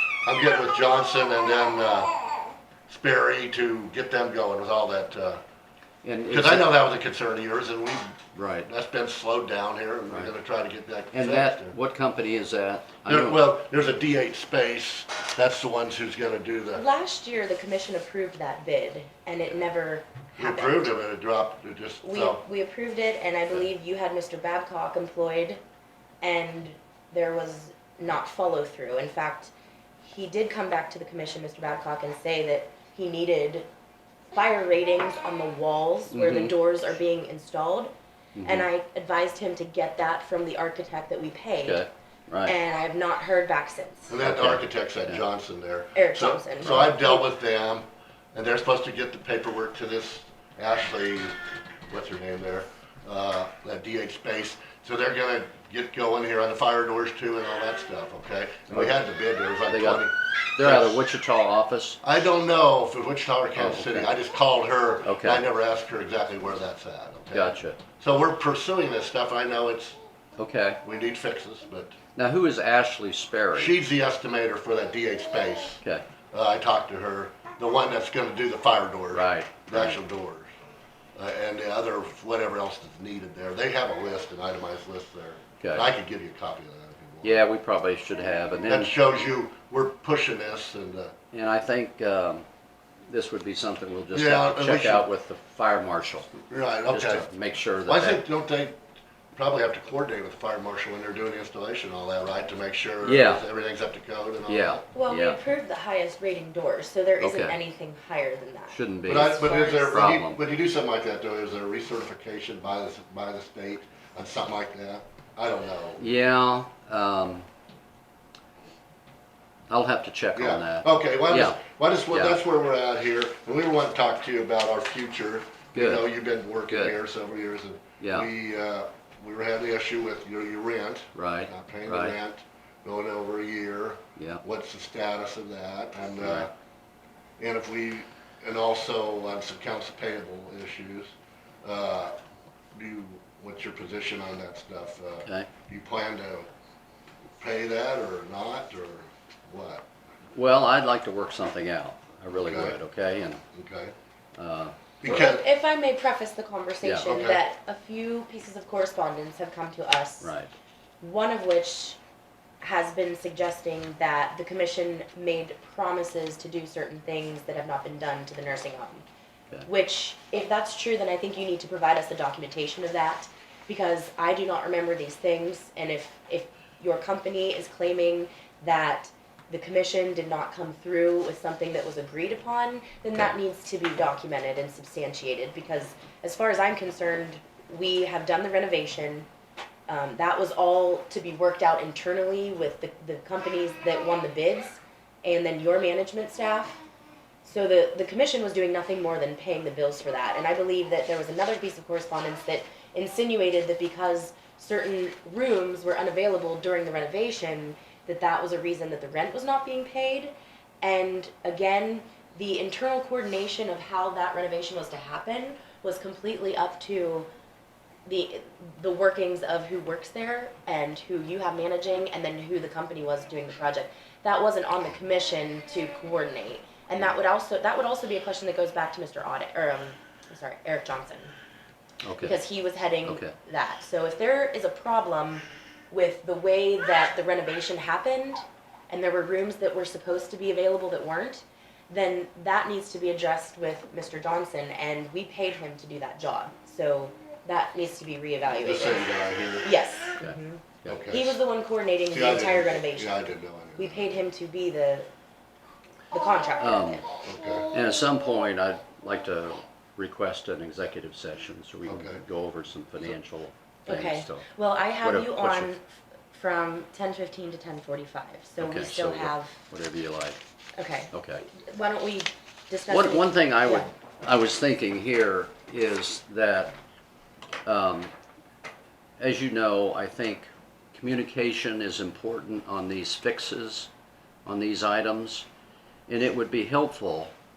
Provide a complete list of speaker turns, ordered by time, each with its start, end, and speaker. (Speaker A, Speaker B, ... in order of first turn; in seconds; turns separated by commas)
Speaker A: 0.2-2.1, Speaker A: 2.9-5.4, Speaker B: 6.0-6.7, Speaker A: 6.3-11.7, Speaker B: 8.3-8.7, Speaker B: 11.1-13.5, Speaker A: 13.0-16.8, Speaker C: 16.8-20.9, Speaker A: 20.4-22.4, Speaker C: 22.0-25.6, Speaker C: 26.2-33.7, Speaker C: 34.3-37.9, Speaker B: 36.1-36.5, Speaker B: 38.3-38.7, Speaker C: 38.4-41.9, Speaker B: 41.6-42.5, Speaker C: 42.5-44.2, Speaker A: 44.1-51.4, Speaker B: 44.2-45.2, Speaker C: 45.9-47.2, Speaker B: 46.6-46.9, Speaker A: 51.9-61.0, Speaker B: 59.7-62.0, Speaker A: 62.0-70.0, Speaker B: 63.5-64.1, Speaker B: 65.0-65.4, Speaker B: 67.3-67.8, Speaker B: 70.4-70.8, Speaker A: 70.8-71.9, Speaker B: 72.2-73.8, Speaker A: 73.5-80.5, Speaker B: 79.1-80.0, Speaker A: 81.2-87.4, Speaker B: 85.6-85.9, Speaker B: 87.2-89.0, Speaker A: 88.7-91.1, Speaker B: 91.3-92.4, Speaker B: 93.1-96.3, Speaker A: 94.1-95.0, Speaker A: 96.5-97.3, Speaker B: 96.9-98.2, Speaker A: 97.8-98.8, Speaker A: 99.3-104.8, Speaker B: 103.0-103.4, Speaker B: 104.5-105.4, Speaker C: 104.9-109.9, Speaker B: 107.2-107.6, Speaker B: 108.7-110.4, Speaker A: 109.0-116.1, Speaker B: 116.0-117.5, Speaker B: 119.7-121.6, Speaker A: 120.3-136.5, Speaker B: 122.1-122.4, Speaker B: 125.7-126.1, Speaker B: 126.7-127.0, Speaker B: 128.0-128.3, Speaker B: 131.1-132.2, Speaker B: 134.2-134.4, Speaker B: 136.2-136.5, Speaker A: 137.4-141.1, Speaker A: 141.6-142.2, Speaker A: 142.7-146.5, Speaker B: 145.2-145.5, Speaker A: 147.4-149.8, Speaker B: 150.3-153.4, Speaker A: 152.4-152.8, Speaker A: 153.5-153.9, Speaker B: 154.3-155.2, Speaker A: 155.0-155.4, Speaker C: 155.0-160.3, Speaker B: 156.8-157.2, Speaker A: 157.0-157.4, Speaker B: 160.2-160.5, Speaker C: 161.0-162.0, Speaker C: 162.6-169.0, Speaker C: 169.6-189.3, Speaker C: 189.9-196.8, Speaker C: 197.4-217.3, Speaker C: 218.1-231.3, Speaker B: 232.0-232.4, Speaker C: 232.2-249.1, Speaker B: 233.0-233.3, Speaker A: 248.6-249.7, Speaker C: 249.6-255.1, Speaker B: 250.2-251.0, Speaker A: 250.8-251.4, Speaker A: 252.1-254.2, Speaker C: 256.1-257.0, Speaker B: 256.6-257.0, Speaker A: 257.2-257.7, Speaker B: 257.7-264.5, Speaker A: 261.9-262.2, Speaker C: 263.9-269.6, Speaker B: 265.0-265.7, Speaker B: 268.6-270.4, Speaker C: 270.8-273.9, Speaker B: 271.1-271.5, Speaker B: 272.9-276.7, Speaker B: 277.6-278.1, Speaker B: 279.2-283.9, Speaker B: 284.4-285.4, Speaker B: 286.1-287.3